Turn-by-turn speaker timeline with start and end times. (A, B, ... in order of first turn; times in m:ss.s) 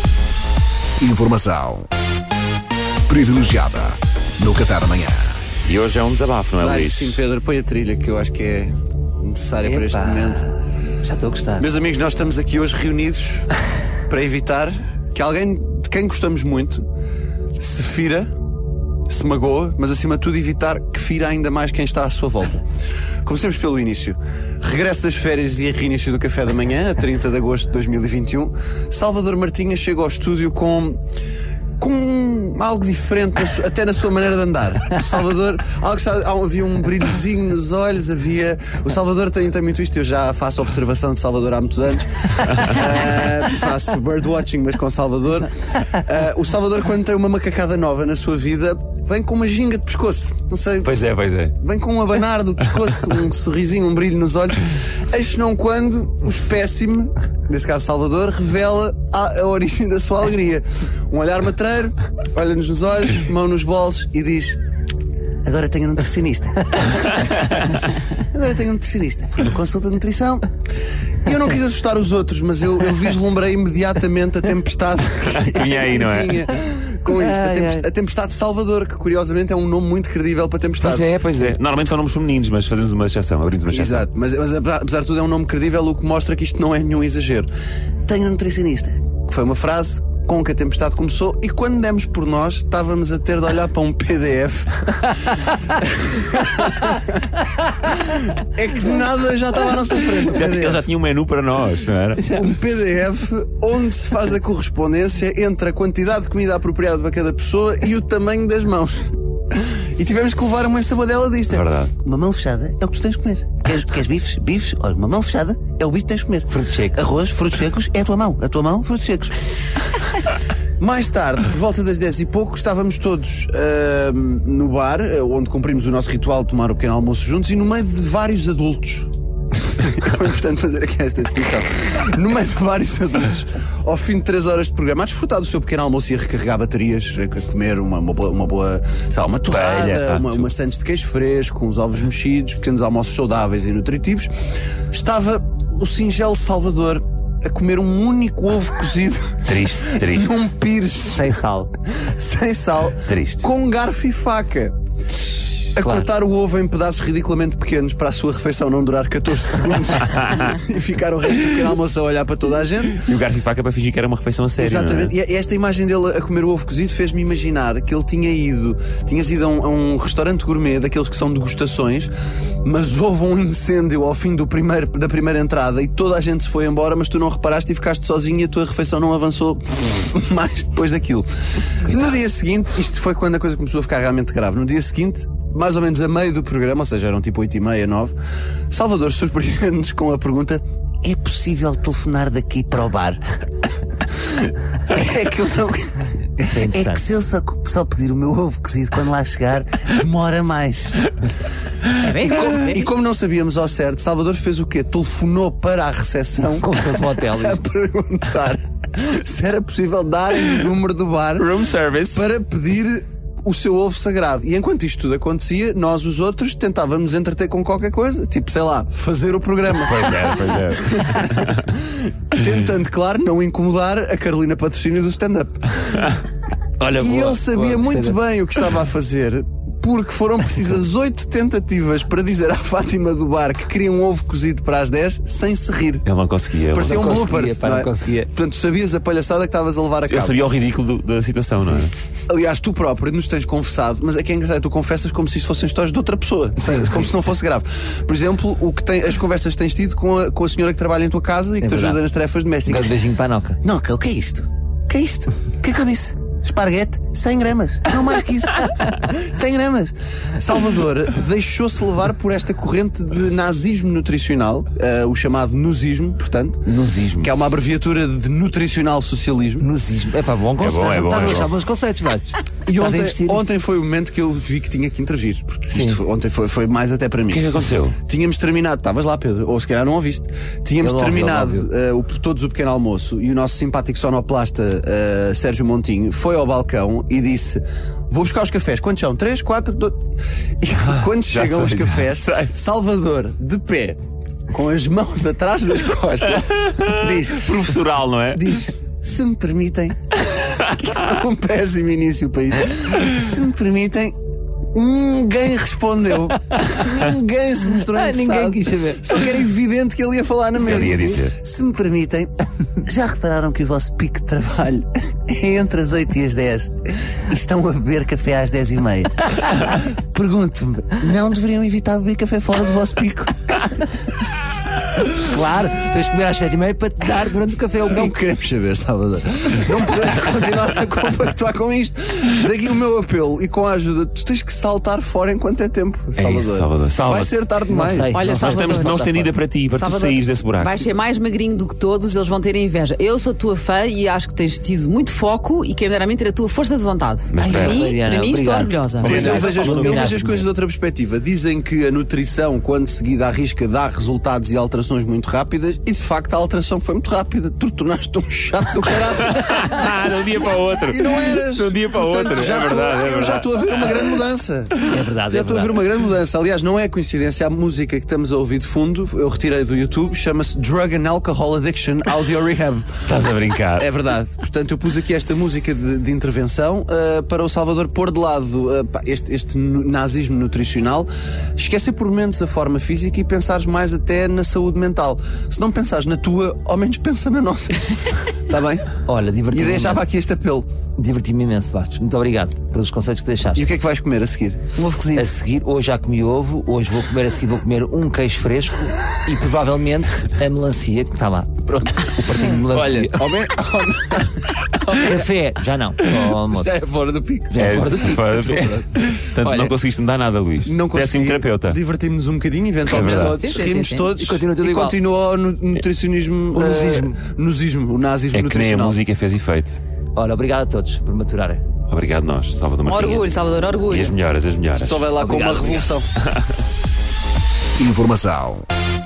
0:01.0-0:01.9 A
0:03.1-0:05.4 A
0:05.6-0:07.2 B
0:06.6-0:10.5 C
0:09.6-0:10.5 D
0:11.0-0:11.6 D
0:11.6-0:13.5 C
0:14.1-0:16.8 C
0:17.6-0:18.3 C
0:19.1-0:22.6 C
0:23.2-0:31.0 C
0:31.8-0:50.9 C
0:42.5-0:42.7 B
0:50.8-0:51.5 B
0:51.6-1:04.6 C
1:05.4-1:07.3 C
1:08.2-1:10.5 C
1:11.2-1:21.0 C
1:15.4-1:16.4 B
1:17.1-1:17.8 D
1:20.8-1:21.5 D
1:21.0-1:24.1 B
1:23.7-1:27.5 C
1:28.0-1:37.1 C
1:37.8-1:40.8 C
1:40.3-1:42.3 B
1:42.2-2:00.0 C
1:51.5-1:51.9 B
1:56.5-1:57.0 D
2:00.8-2:09.1 C
2:09.7-2:24.3 C
2:19.4-2:20.5 B
2:24.9-2:31.3 C
2:29.4-2:30.4 B
2:31.1-2:31.7 D
2:32.0-2:34.7 C
2:33.0-2:33.5 B
2:35.7-2:43.1 C
2:35.8-2:36.0 D
2:40.1-2:40.4 B
2:43.0-2:45.1 B
2:44.6-2:52.1 C
2:52.6-3:08.1 C
3:01.8-3:02.2 B
3:08.7-3:13.2 C
3:14.0-3:16.1 C
3:16.4-3:17.0 D
3:16.7-3:21.1 C
3:22.0-3:22.9 E
3:22.0-3:46.2 C
3:26.6-3:27.6 D
3:31.4-3:32.3 B
3:39.7-3:41.7 B
3:46.8-3:48.2 D
3:47.0-3:56.0 C
3:56.0-3:57.2 B
3:56.7-4:00.4 C
3:56.8-3:58.3 D
4:00.0-4:01.9 B
4:02.3-4:13.0 C
4:06.6-4:07.1 D
4:11.6-4:12.0 D
4:12.6-4:13.6 D
4:13.6-4:26.6 C
4:26.7-4:27.3 D
4:27.2-4:29.6 C
4:29.6-4:33.4 D
4:30.6-4:31.5 B
4:32.6-4:50.0 C
4:35.7-4:36.0 D
4:37.3-4:38.0 B
4:40.8-4:41.7 D
4:50.6-4:54.0 C
4:50.8-4:52.5 B
4:54.5-4:57.8 C
4:56.6-4:58.4 B
4:58.3-5:04.1 C
5:04.7-5:23.8 C
5:07.8-5:09.3 D
5:10.6-5:11.4 B
5:25.2-5:28.1 D
5:27.8-5:38.2 C
5:36.2-5:37.5 B
5:37.7-5:39.3 D
5:38.0-5:39.0 E
5:38.3-5:40.8 B
5:39.7-5:49.2 E
5:47.3-5:47.8 B
5:47.4-5:50.5 D
5:49.0-6:00.2 C
5:49.0-5:50.1 B
5:59.2-6:04.0 B
6:00.9-6:13.0 C
6:04.9-6:05.8 D
6:13.0-6:13.9 B
6:13.8-6:28.9 C
6:29.0-6:30.0 D
6:29.5-6:30.6 C
6:31.0-6:33.7 D
6:33.6-6:35.3 C
6:35.1-6:43.3 D
6:41.7-6:45.2 C
6:44.9-6:46.8 D
6:46.3-6:48.2 C
6:47.5-6:49.7 D
6:47.6-6:51.8 B
6:50.6-6:59.0 C
6:52.9-6:53.4 B
6:52.9-6:55.0 D
6:53.1-6:54.1 E
6:56.5-6:57.2 D
6:58.3-6:59.8 B
7:00.1-7:01.6 D
7:01.9-7:05.0 B
7:02.8-7:04.1 E
7:04.8-7:06.1 C
7:05.2-7:05.9 D
7:07.8-7:08.7 A